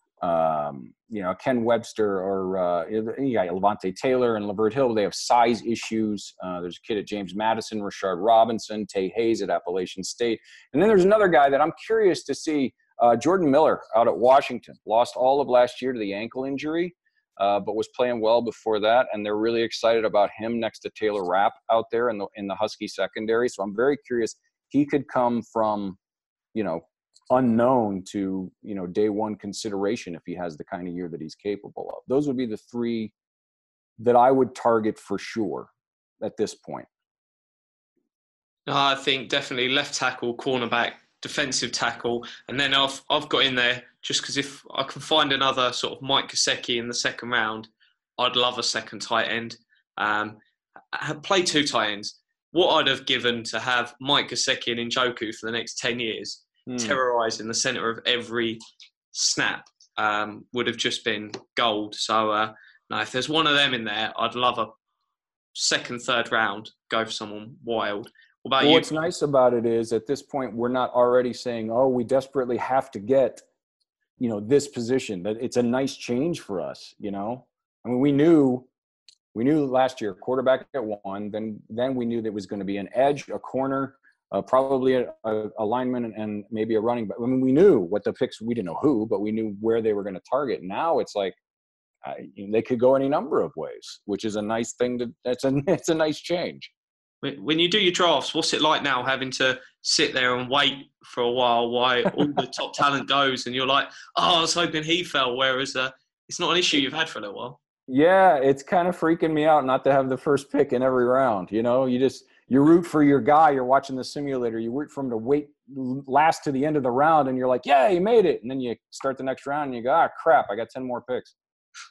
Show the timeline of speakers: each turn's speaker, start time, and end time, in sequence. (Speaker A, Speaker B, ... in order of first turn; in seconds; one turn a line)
Speaker A: 0.2-26.0
Speaker A: 26.5-33.1
Speaker A: 34.0-35.7
Speaker A: 36.2-36.9
Speaker B: 38.6-50.4
Speaker B: 50.9-58.6
Speaker A: 56.6-57.0
Speaker B: 59.1-64.7
Speaker B: 65.5-68.9
Speaker A: 68.6-73.4
Speaker A: 74.2-78.7
Speaker A: 79.3-91.4
Speaker A: 92.0-96.7
Speaker B: 97.2-107.6
Speaker A: 107.9-121.3